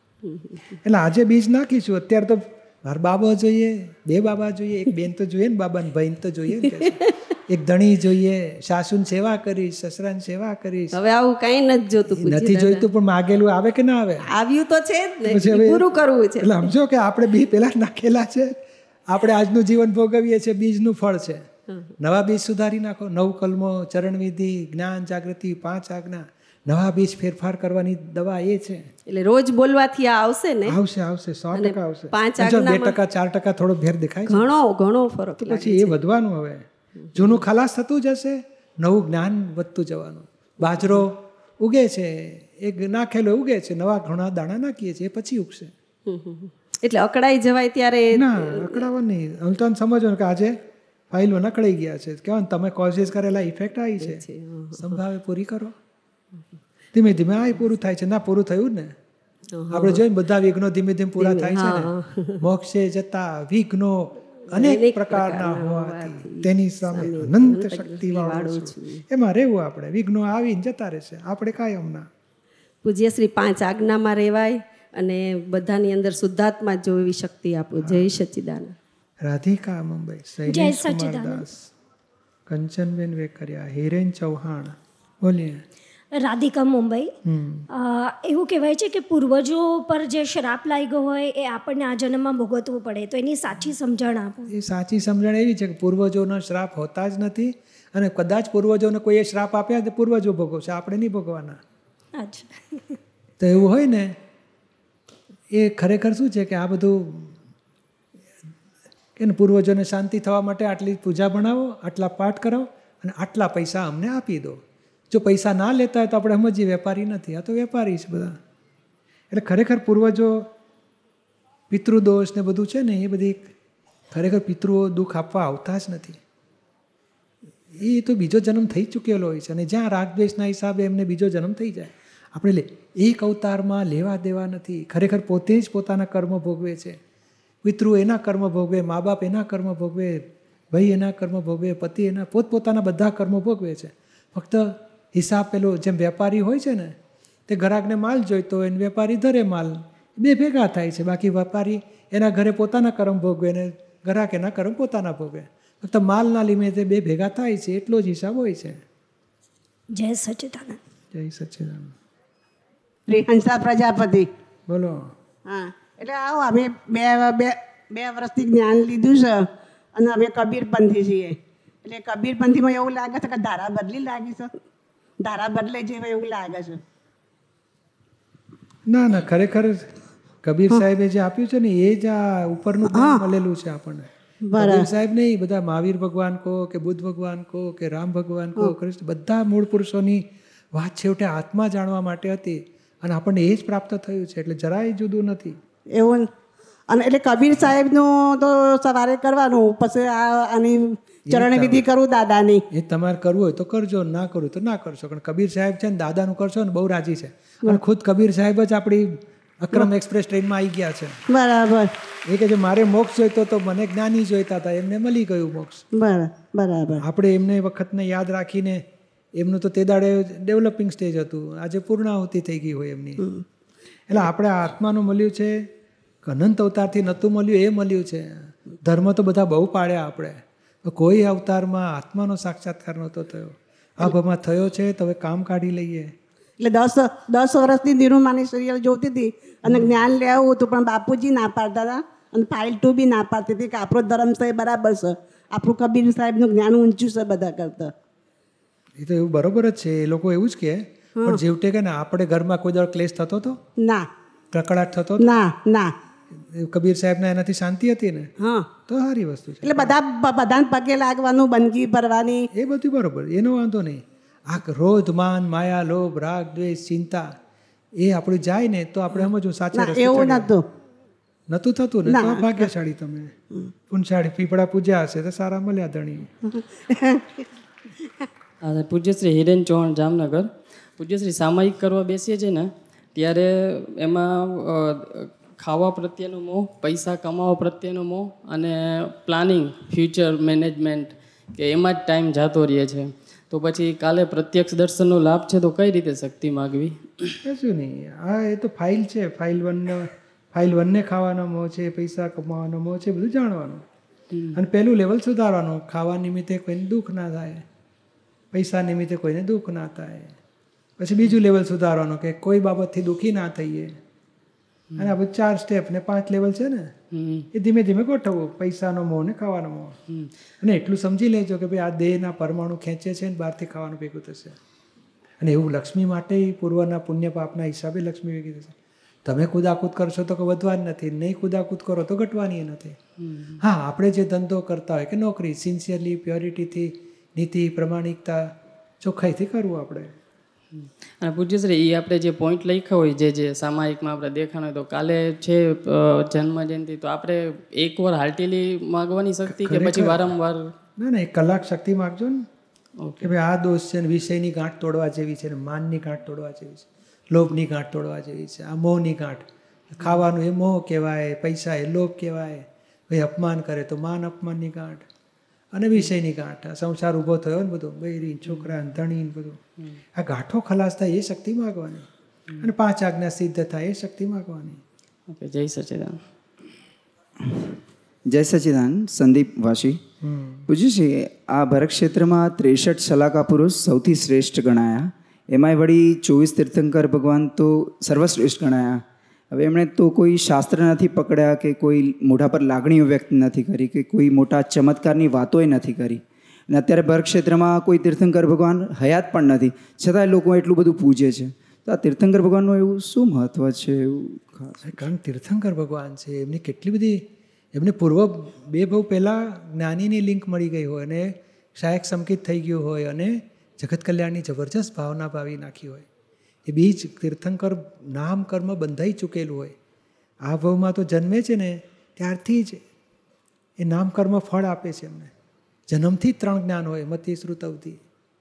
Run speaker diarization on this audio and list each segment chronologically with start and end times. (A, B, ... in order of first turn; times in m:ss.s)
0:00.2-0:00.8 A
0:00.8-0:11.0 B
0:10.9-0:12.9 A
0:12.1-0:14.2 B
0:14.2-0:16.7 A
0:15.2-0:18.6 B
0:19.1-0:21.4 B
0:22.0-0:28.9 B
0:29.1-0:30.8 A
0:30.6-0:34.5 B
0:31.5-0:33.0 A
0:34.2-0:36.0 A
0:35.4-0:45.7 B
0:40.7-0:41.0 A
0:46.1-0:48.9 A
0:48.1-0:50.6 B
0:51.1-0:54.2 B
0:54.0-0:54.9 A
0:54.7-0:55.7 B
0:56.9-0:58.9 B
0:59.6-1:00.0 A
0:59.7-1:12.1 B
1:01.2-1:02.4 A
1:04.5-1:09.0 A
1:12.8-1:18.7 A
1:17.8-1:18.1 B
1:19.2-1:21.6 B
1:20.4-1:21.4 C
1:22.5-1:25.6 B
1:26.2-1:27.1 C
1:27.2-1:27.6 B
1:27.7-1:34.5 C
1:34.5-1:41.6 B
1:42.2-1:43.0 C
1:43.4-1:44.2 B
1:45.5-1:47.3 B
1:49.2-1:58.4 B
1:59.3-2:00.5 B
2:01.7-2:03.5 B
2:04.1-2:06.2 B
2:07.8-2:17.0 B
2:17.6-2:26.9 B
2:27.5-2:38.8 B
2:39.9-2:40.8 C
2:41.1-2:41.9 B
2:43.1-2:44.3 D
2:44.7-2:45.1 B
2:45.4-2:54.5 D
2:55.2-2:56.8 D
2:58.9-2:59.9 B
3:00.4-3:15.6 B
3:02.8-3:03.2 D
3:04.5-3:04.9 D
3:15.9-3:16.3 D
3:16.9-3:22.6 D
3:21.3-3:21.8 B
3:22.7-3:31.2 B
3:31.3-3:31.9 D
3:32.3-3:35.8 B
3:35.9-3:37.0 D
3:37.0-3:38.8 B
3:39.4-3:43.2 B
3:43.2-3:43.4 D
3:44.1-3:45.6 B
3:46.2-3:56.1 B
3:56.6-4:07.9 D
3:59.7-4:00.0 B
4:09.0-4:13.6 B
4:11.2-4:11.4 D
4:13.8-4:14.1 D
4:14.5-4:15.2 B
4:15.2-4:15.9 D
4:16.4-4:18.3 B
4:18.4-4:18.7 D
4:18.8-4:19.9 B
4:19.6-4:22.4 D
4:22.5-4:27.3 B
4:28.0-4:30.5 B
4:29.7-4:30.6 D
4:31.5-4:33.3 B
4:32.0-4:32.7 D
4:33.9-4:36.3 B
4:36.4-4:37.3 D
4:38.6-4:57.4 E
4:57.4-5:03.8 B
5:04.3-5:04.6 E
5:04.5-5:07.6 B
5:08.5-5:10.3 B
5:11.0-5:13.9 B
5:15.0-5:16.9 B
5:17.1-5:17.5 E
5:17.5-5:20.0 B
5:20.6-5:24.6 B
5:25.4-5:28.7 B
5:29.2-5:33.0 B
5:33.2-5:33.6 E
5:33.6-5:38.5 B
5:39.0-5:40.1 B
5:40.7-5:50.7 E
5:49.5-5:50.3 B
5:51.0-5:52.4 B
5:53.0-5:53.3 E
5:53.2-6:05.0 B
6:05.7-6:09.6 B
6:08.5-6:08.8 E
6:10.2-6:12.1 B
6:12.6-6:14.8 B
6:15.3-6:16.2 E
6:18.3-6:20.0 F
6:20.2-6:20.6 B
6:20.7-6:45.0 F
6:44.8-6:56.0 B
6:56.6-6:59.7 B
7:00.4-7:02.8 B
7:03.8-7:05.3 B
7:05.9-7:08.0 B